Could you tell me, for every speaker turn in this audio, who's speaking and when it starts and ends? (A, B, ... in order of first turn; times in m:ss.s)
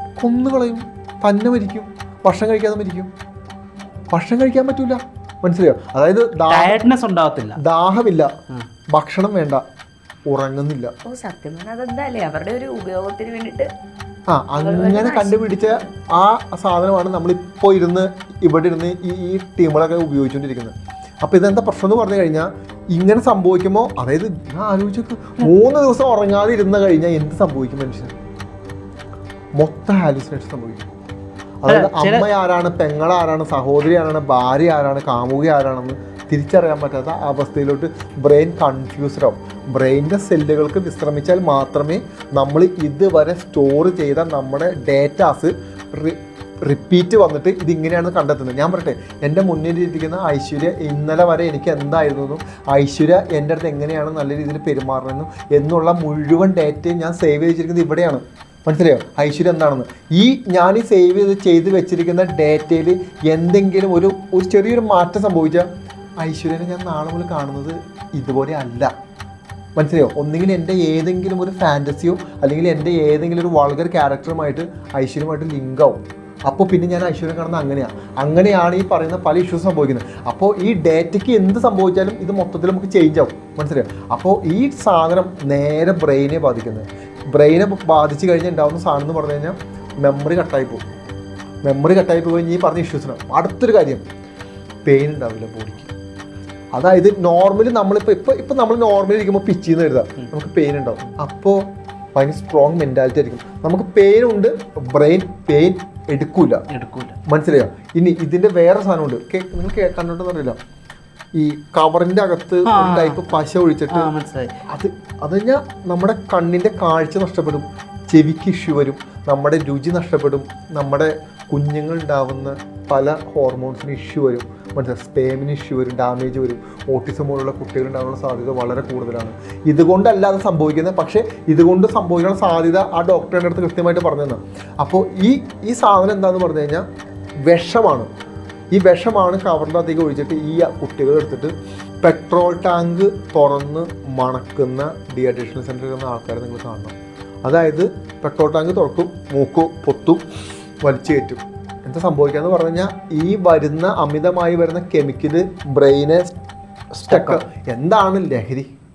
0:00.2-0:03.1 A
0:04.1-0:06.8 A
0:06.5-0:07.6 B
0:07.6-0:08.3 A
0:08.9-0:09.6 A
0:10.3-0:10.9 A
0:11.1-0:13.7 C
0:14.3-0:28.1 A
0:14.6-0:15.4 C
0:29.6-0:30.8 A
0:31.6-1:05.7 A
0:31.7-0:32.3 B
1:06.2-1:08.9 A
1:09.8-1:30.8 A
1:31.6-1:34.0 A
1:34.8-1:35.9 A
1:36.7-1:46.6 A
1:46.7-1:47.2 B
1:47.3-1:50.6 A
1:51.4-1:54.1 A
1:52.6-1:54.6 B
1:54.7-2:16.8 A
2:17.5-2:18.1 A
2:18.7-2:26.9 A
2:27.5-2:30.2 A
2:30.8-2:36.4 A
2:37.0-2:37.4 B
2:37.1-2:38.7 A